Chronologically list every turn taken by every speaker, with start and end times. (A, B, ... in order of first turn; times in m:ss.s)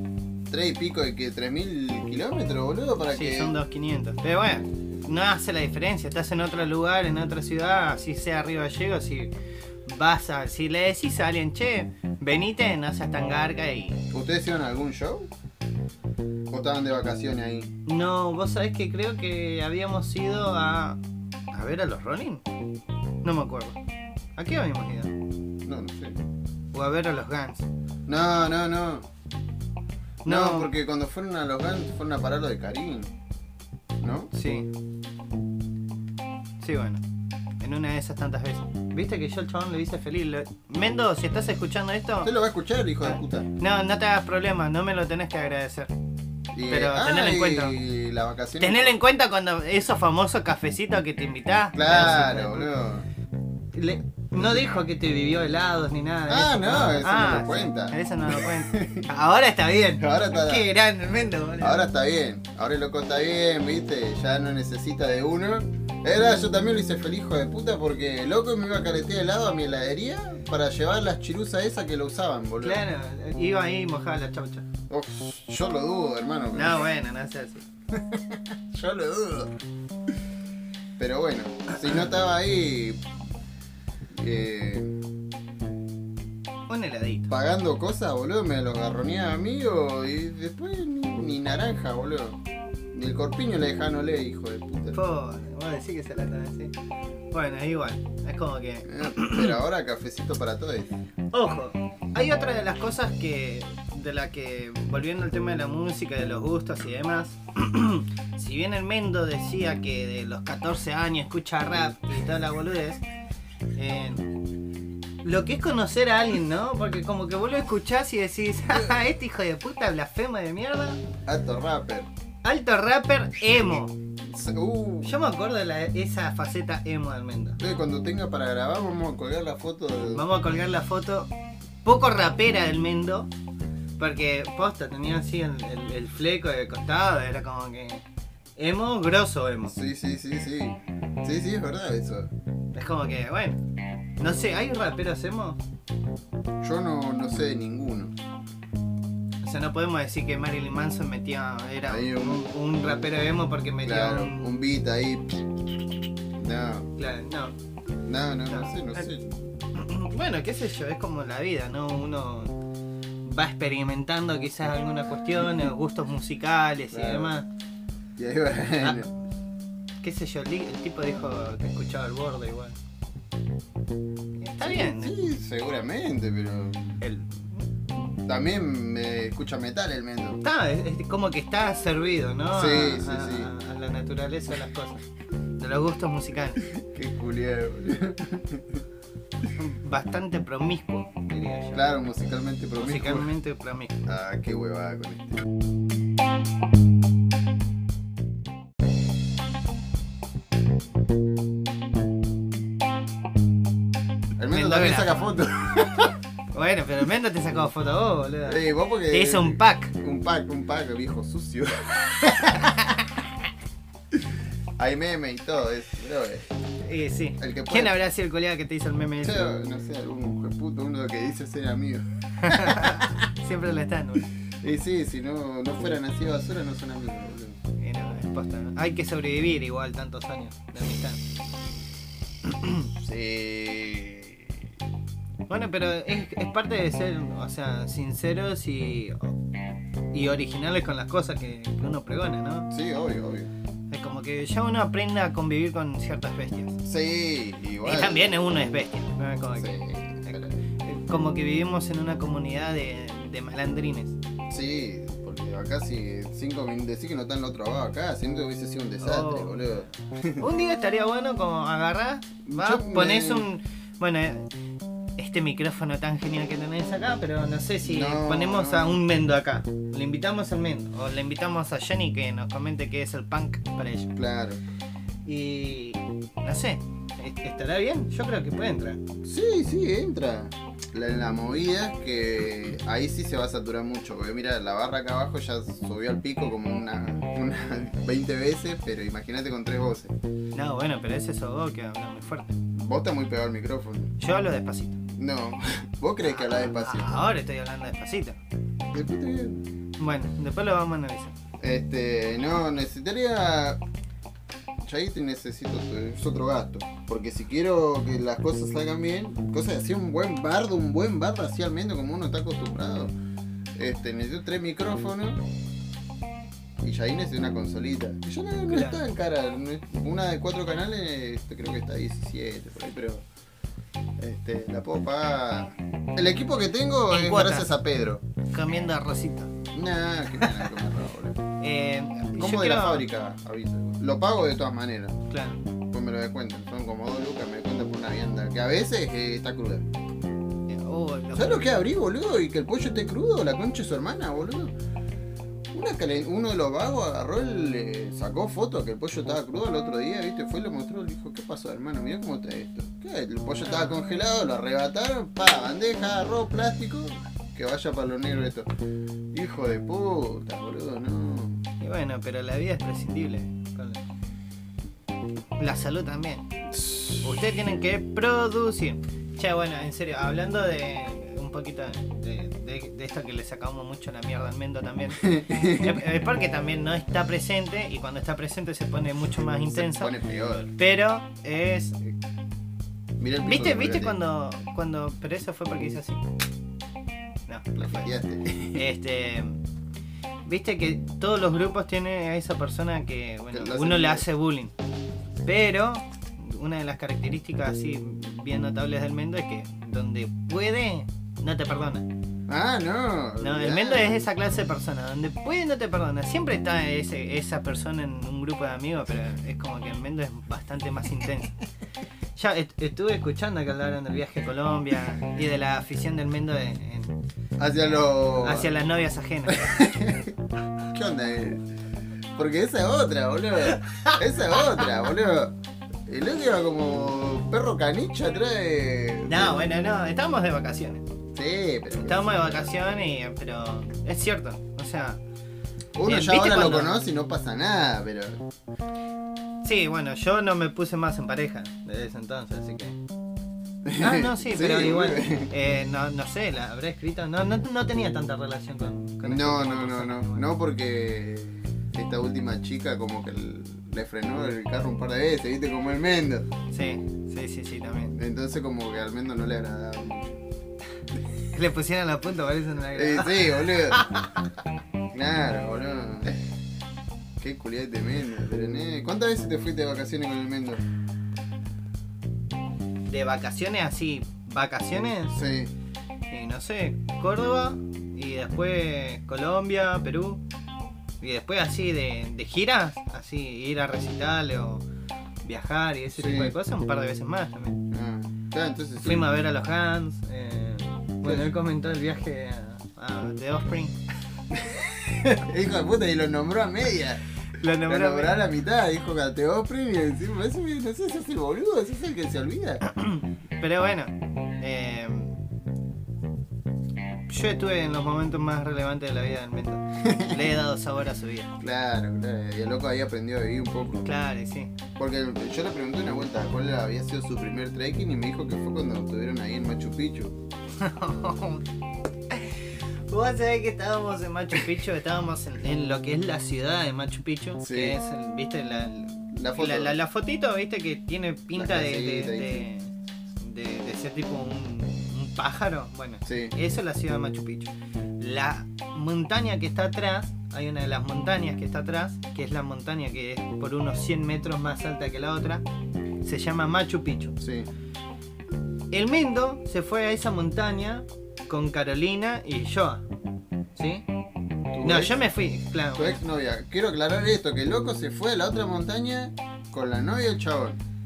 0:00.5-0:03.6 A
0:03.1-0:09.3 B
0:09.8-0:14.0 B
0:14.1-0:15.3 A
0:16.5-0:17.7 A
0:17.8-0:21.0 B
0:21.5-0:22.4 B
0:23.2-0:23.8 B
0:24.4-0:25.1 B
0:25.6-0:26.2 A
0:26.7-0:27.6 B
0:28.0-0:29.1 A
0:30.2-0:30.7 B
0:30.2-0:33.1 A
0:34.0-0:34.3 A
0:34.3-0:34.7 B
0:36.6-0:37.0 B
0:37.6-0:42.3 B
0:42.2-0:43.5 A
0:43.0-0:45.9 B
0:46.5-0:49.0 A
0:46.7-0:47.8 B
0:48.6-0:52.7 B
0:51.7-0:53.1 A
0:53.7-1:01.8 B
0:54.4-0:54.8 A
0:56.3-0:59.1 A
1:00.0-1:00.7 A
1:01.6-1:12.8 A
1:12.6-1:14.6 B
1:14.9-1:16.9 A
1:16.5-1:17.6 B
1:17.9-1:19.6 A
1:21.0-1:23.0 A
1:24.1-1:25.0 A
1:26.7-1:27.3 B
1:27.3-1:32.4 A
1:32.9-1:35.0 A
1:34.9-1:36.7 B
1:37.3-1:39.6 B
1:38.8-1:40.9 A
1:41.3-1:53.0 B
1:53.7-1:54.3 B
1:55.2-2:01.0 B
2:01.2-2:02.1 A
2:02.4-2:03.9 B
2:04.2-2:05.2 A
2:05.0-2:07.6 B
2:07.6-2:10.3 A
2:10.1-2:11.3 B
2:11.8-2:13.3 B
2:14.0-2:18.0 B
2:18.6-2:19.7 B
2:19.7-2:22.3 A
2:22.7-2:23.6 B
2:24.2-2:25.6 B
2:26.6-2:28.1 A
2:29.4-2:34.5 B
2:31.9-2:32.4 A
2:33.8-2:36.9 A
2:37.0-2:37.5 B
2:38.0-2:39.4 A
2:38.5-2:39.1 B
2:39.7-2:42.6 B
2:43.2-2:47.5 B
2:46.9-2:47.4 A
2:48.2-2:49.1 A
2:50.0-2:52.8 B
2:54.4-2:55.3 B
2:54.6-2:57.0 A
2:57.0-2:57.6 B
2:58.2-3:00.4 A
3:00.4-3:05.0 B
3:02.5-3:03.5 A
3:05.6-3:06.6 B
3:06.6-3:08.8 A
3:09.6-3:11.9 B
3:11.7-3:13.3 A
3:12.8-3:14.0 B
3:14.0-3:15.5 A
3:24.4-3:26.1 A
3:24.5-3:25.2 B
3:26.5-3:29.9 B
3:28.4-3:33.3 A
3:32.4-3:32.7 B
3:34.8-3:36.5 A
3:36.8-3:39.5 B
3:37.4-3:37.9 A
3:39.2-3:43.3 A
3:42.4-3:44.3 B
3:44.4-3:47.6 A
3:47.8-3:51.2 B
3:52.4-3:52.9 B
3:52.9-3:54.6 A
3:55.5-3:59.4 B
4:00.1-4:02.7 B
4:02.7-4:03.5 A
4:03.9-4:06.8 B
4:06.8-4:08.3 A
4:07.8-4:14.1 B
4:09.6-4:10.5 A
4:14.5-4:20.5 A
4:19.0-4:19.9 B
4:20.4-4:24.5 B
4:22.4-4:23.5 A
4:25.2-4:34.1 B
4:27.8-4:29.0 A
4:34.1-4:34.6 A
4:35.2-4:39.0 B
4:39.2-4:50.1 A
4:50.5-4:52.6 B
4:52.7-4:54.1 A
4:54.2-4:55.0 B
4:55.1-4:57.2 A
4:56.2-4:58.4 B
4:58.9-4:59.6 A
5:00.0-5:01.3 B
5:01.6-5:03.8 A
5:04.8-5:13.1 A
5:13.8-5:15.4 A
5:16.8-5:23.2 A
5:18.7-5:19.0 B
5:24.2-5:28.2 A
5:27.1-5:27.7 B
5:28.5-5:29.5 B
5:29.7-5:31.4 A
5:30.4-5:30.7 B
5:31.6-5:33.0 B
5:32.4-5:35.2 A
5:35.3-5:35.6 B
5:35.9-5:39.8 A
5:40.7-5:41.8 B
5:41.3-5:44.7 A
5:45.7-5:58.7 A
5:53.6-5:54.0 B
5:59.3-6:01.6 A
6:01.8-6:04.0 B
6:05.6-6:06.5 B
6:06.7-6:07.2 A
6:07.2-6:20.1 B
6:15.2-6:16.0 A
6:19.7-6:20.7 A
6:20.8-6:22.1 B
6:23.2-6:24.2 A
6:23.4-6:26.2 B
6:27.5-6:28.1 B
6:27.7-6:28.9 A
6:28.7-6:29.6 B
6:30.4-6:34.7 B
6:33.5-6:34.2 A
6:35.4-6:42.1 B
6:42.5-6:44.2 A
6:43.4-6:51.6 B
6:52.4-6:57.2 B
6:57.6-6:58.7 A
6:58.2-6:59.7 B
6:59.5-7:00.3 A
7:00.9-7:01.6 A
7:02.3-7:09.7 A
7:03.8-7:04.2 B
7:09.2-7:11.0 B
7:11.3-7:12.7 A
7:12.0-7:15.2 B
7:15.9-7:18.4 A
7:16.0-7:17.0 B
7:19.6-7:23.0 B
7:23.8-7:25.5 A
7:24.0-7:30.4 B
7:29.2-7:36.5 A
7:36.7-7:38.1 B
7:38.1-7:40.4 A
7:41.5-7:44.3 B
7:42.9-7:44.1 A
7:45.1-7:46.4 A
7:47.4-7:50.8 A
7:53.1-7:55.4 B
7:55.3-7:55.7 A
7:56.3-8:00.4 B
8:01.2-8:04.8 B
8:05.4-8:07.8 B
8:06.2-8:06.5 A
8:07.9-8:09.3 A
8:09.0-8:14.0 B
8:14.5-8:17.2 A
8:17.5-8:18.4 B
8:17.8-8:22.8 A
8:22.9-8:25.4 B
8:27.3-8:31.5 B
8:30.0-8:30.4 A
8:31.6-8:34.1 A
8:34.0-8:34.7 B
8:35.0-8:40.4 A
8:40.8-8:41.6 B
8:42.3-9:05.6 B
8:47.6-8:48.0 A
8:49.3-8:49.9 A
8:51.5-8:52.7 A
8:56.2-8:56.5 A
9:06.2-9:07.4 B
9:07.4-9:07.7 A
9:08.9-9:13.0 B
9:13.8-9:14.0 B
9:14.7-9:15.2 A
9:14.8-9:16.2 B
9:15.9-9:20.8 A